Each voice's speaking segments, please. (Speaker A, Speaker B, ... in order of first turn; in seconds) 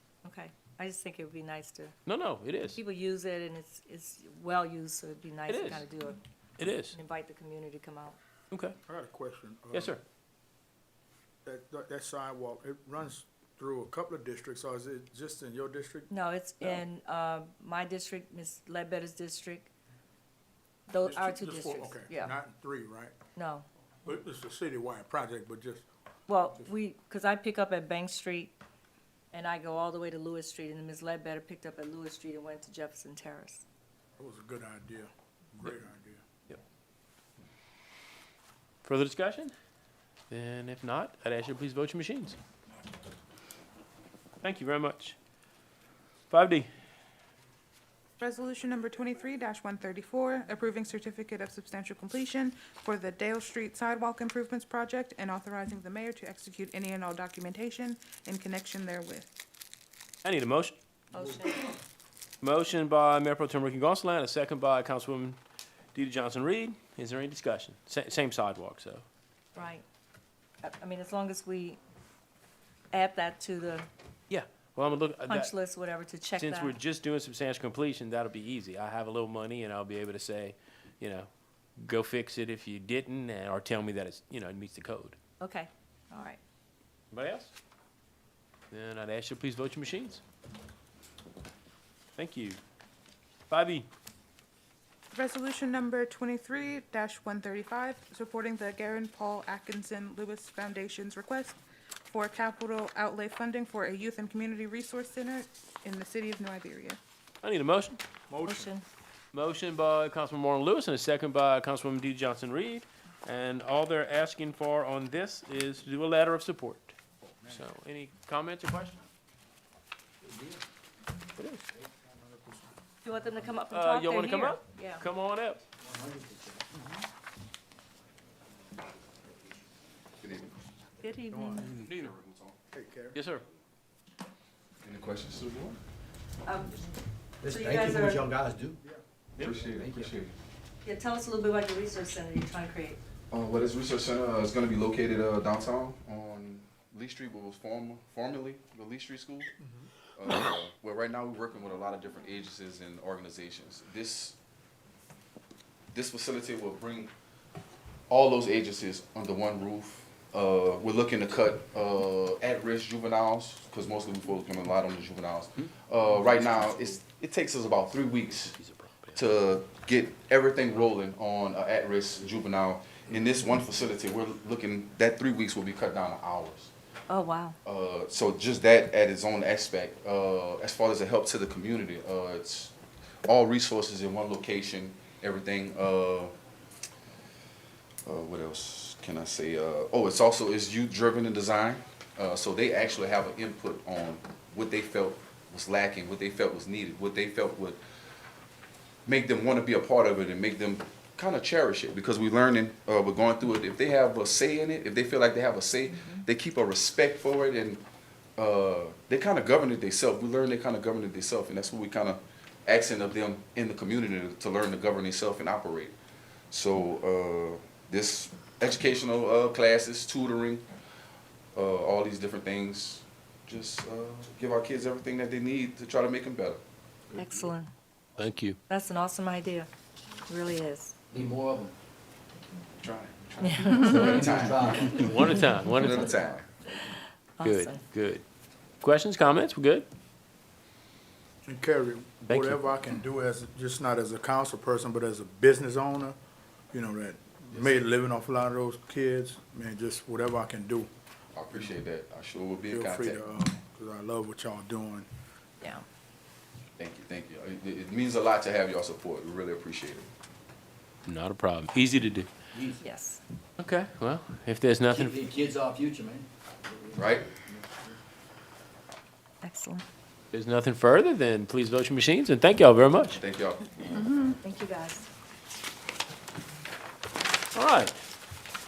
Speaker A: 0.2-1.9, 2.7-6.2, 6.9-8.2, 16.1-19.7, 20.9-22.3, 23.3-23.6, 26.3-28.6, 29.3-33.6, 61.1-61.7, 69.5-69.8, 70.6-71.8, 72.9-73.9, 75.3-76.8, 85.4-86.4, 108.4-108.8, 123.0-125.0, 131.0-131.7, 136.4-136.8, 137.4-138.3, 140.8-143.0, 177.1-177.6, 205.9-206.2, 227.1-227.7, 228.7-229.7, 230.3-230.9, 233.4-234.3, 237.4-237.8, 262.8-263.2, 269.4-269.8, 274.4-275.1
Speaker B: 2.0-2.8, 5.5-5.8, 6.6-7.0, 8.5-8.8, 9.7-10.0, 38.8-39.5, 40.3-42.4, 44.4-45.2, 46.3-46.7, 60.2-60.8, 62.4-65.4, 65.9-69.0, 74.3-75.5, 76.3-85.2, 87.1-87.5, 88.7-90.2, 92.2-92.6, 93.5-93.9, 107.4-108.0, 109.3-116.9, 117.5-119.0, 121.4-121.6, 123.7-125.6, 131.6-132.1, 133.1-133.4, 139.4-140.1, 166.2-166.9, 168.6-169.2, 228.2-228.6, 234.8-236.3, 237.4-238.2, 238.8-239.8, 242.2-242.6, 261.1-262.3, 263.6-265.3, 270.3-273.2, 277.5-277.9
Speaker C: 8.8-10.0, 11.4-16.8, 21.0-23.1, 24.0-25.8, 34.2-36.2, 108.3-108.7, 117.2-117.6, 122.3-122.7, 131.3-131.7, 132.7-133.2, 149.6-149.9, 241.4-246.2, 246.7-250.9, 252.7-255.1
Speaker D: 48.2-59.3, 95.1-101.6, 102.1-107.0
Speaker E: 120.2-120.6, 125.8-126.8, 137.4-138.8, 139.7-140.1, 231.1-231.8, 233.8-235.4, 262.5-262.8, 264.9-267.9
Speaker F: 130.2-130.5, 131.8-132.7, 134.8-135.8, 139.4-140.4, 143.3-149.5, 150.1-154.4, 155.9-157.1, 158.1-168.6, 169.1-176.7, 177.6-182.7, 183.2-186.3, 188.0-197.8, 199.1-207.8, 208.4-215.9, 216.5-220.6, 221.5-226.6, 232.8-236.9, 247.5-247.8, 251.3-253.2, 256.8-260.1, 266.9-267.3, 273.1-274.2